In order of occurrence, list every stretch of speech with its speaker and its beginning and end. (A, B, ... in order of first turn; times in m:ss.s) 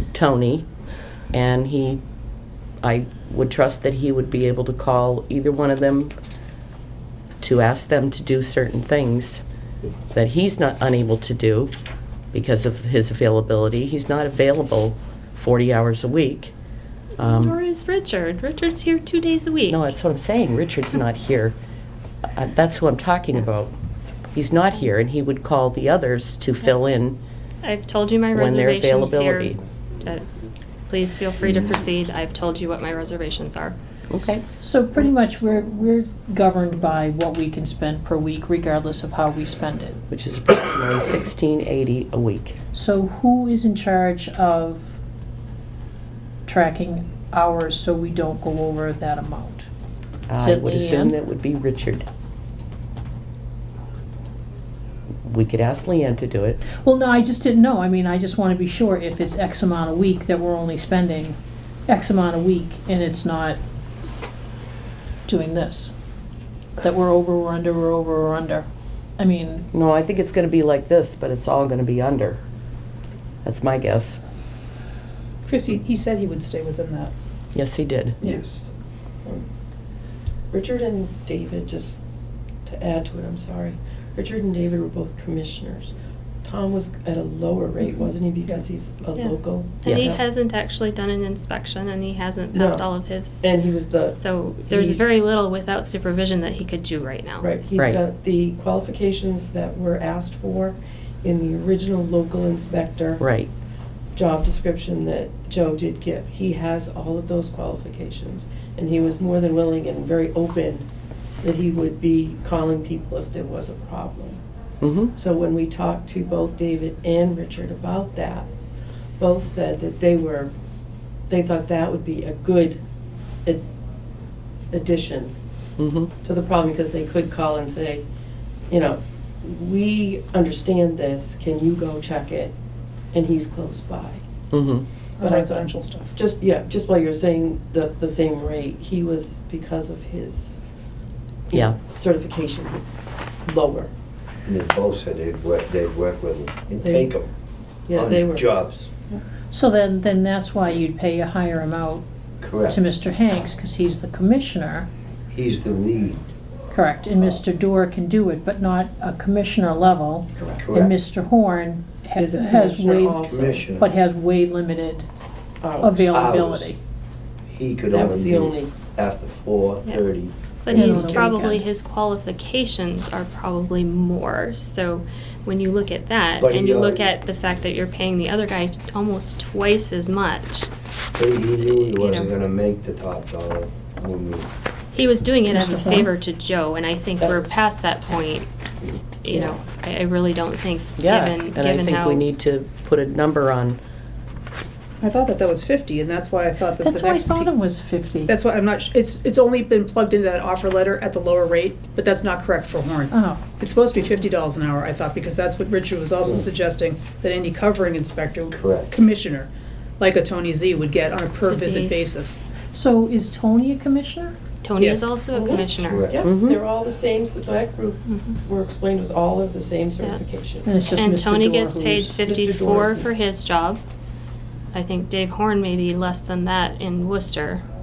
0:00.1-0:00.7 A
0:01.3-0:02.0 A
0:02.8-0:06.1 A
0:07.4-0:09.4 A
0:10.1-0:11.7 A
0:12.3-0:16.5 A
0:17.2-0:17.6 A
0:17.2-0:19.9 B
0:19.7-0:21.6 A
0:22.4-0:23.7 A
0:24.3-0:27.2 A
0:27.6-0:30.3 B
0:28.3-0:29.6 A
0:30.9-0:33.8 B
0:34.1-0:34.4 A
0:34.4-0:40.0 C
0:40.1-0:42.6 A
0:42.7-0:44.9 C
0:46.5-0:49.7 C
0:50.3-0:52.1 A
0:50.4-0:51.2 C
0:55.2-0:56.6 A
0:56.8-1:01.4 C
1:01.9-1:03.6 C
1:05.3-1:05.9 C
1:06.8-1:08.7 C
1:09.2-1:09.7 C
1:09.7-1:12.4 A
1:13.4-1:14.2 A
1:15.4-1:17.1 D
1:17.5-1:18.2 A
1:18.3-1:18.6 E
1:20.1-1:22.0 F
1:22.7-1:25.9 F
1:26.4-1:30.2 F
1:29.2-1:33.5 B
1:29.8-1:30.2 A
1:32.5-1:32.9 F
1:33.4-1:35.6 F
1:34.1-1:37.5 B
1:37.4-1:43.2 F
1:43.2-1:43.5 A
1:44.2-1:50.9 F
1:51.4-1:54.4 F
1:54.8-1:55.1 A
1:55.1-1:58.5 F
1:59.2-2:00.5 F
2:01.3-2:02.8 F
2:04.7-2:05.3 F
2:05.8-2:06.1 A
2:06.2-2:08.1 F
2:08.7-2:12.5 F
2:13.1-2:14.2 F
2:14.5-2:14.9 A
2:15.2-2:16.1 D
2:15.2-2:20.6 F
2:21.5-2:23.9 F
2:24.5-2:27.3 E
2:26.8-2:27.1 F
2:27.9-2:28.5 F
2:27.9-2:28.9 E
2:29.5-2:32.0 C
2:32.4-2:32.8 E
2:32.6-2:34.9 C
2:35.3-2:36.2 E
2:36.7-2:45.1 C
2:40.6-2:40.9 E
2:42.2-2:43.7 F
2:43.4-2:43.9 E
2:45.6-2:46.1 F
2:45.8-2:46.8 C
2:46.1-2:46.8 E
2:47.5-2:50.3 E
2:47.9-2:48.8 F
2:50.6-3:00.7 B
2:50.7-2:51.3 F
2:50.7-2:51.7 C
2:56.4-2:57.1 E
3:01.2-3:04.5 E
3:01.6-3:02.3 B
3:04.9-3:08.5 B
3:05.5-3:06.1 C
3:07.2-3:07.5 F
3:09.2-3:12.2 B
3:11.0-3:13.8 A
3:15.0-3:17.5 D
3:16.8-3:18.3 C
3:18.3-3:32.4 D
3:23.1-3:23.4 C
3:26.2-3:26.5 E
3:28.5-3:29.0 E
3:31.5-3:32.0 B
3:32.7-3:34.4 C
3:34.6-3:36.1 B
3:34.8-3:35.2 D
3:35.3-3:40.7 F
3:35.8-3:36.2 E
3:36.2-3:36.6 A
3:38.1-3:38.4 B
3:40.6-3:42.2 C
3:41.0-3:43.8 B
3:42.2-3:43.1 F
3:44.7-3:47.6 B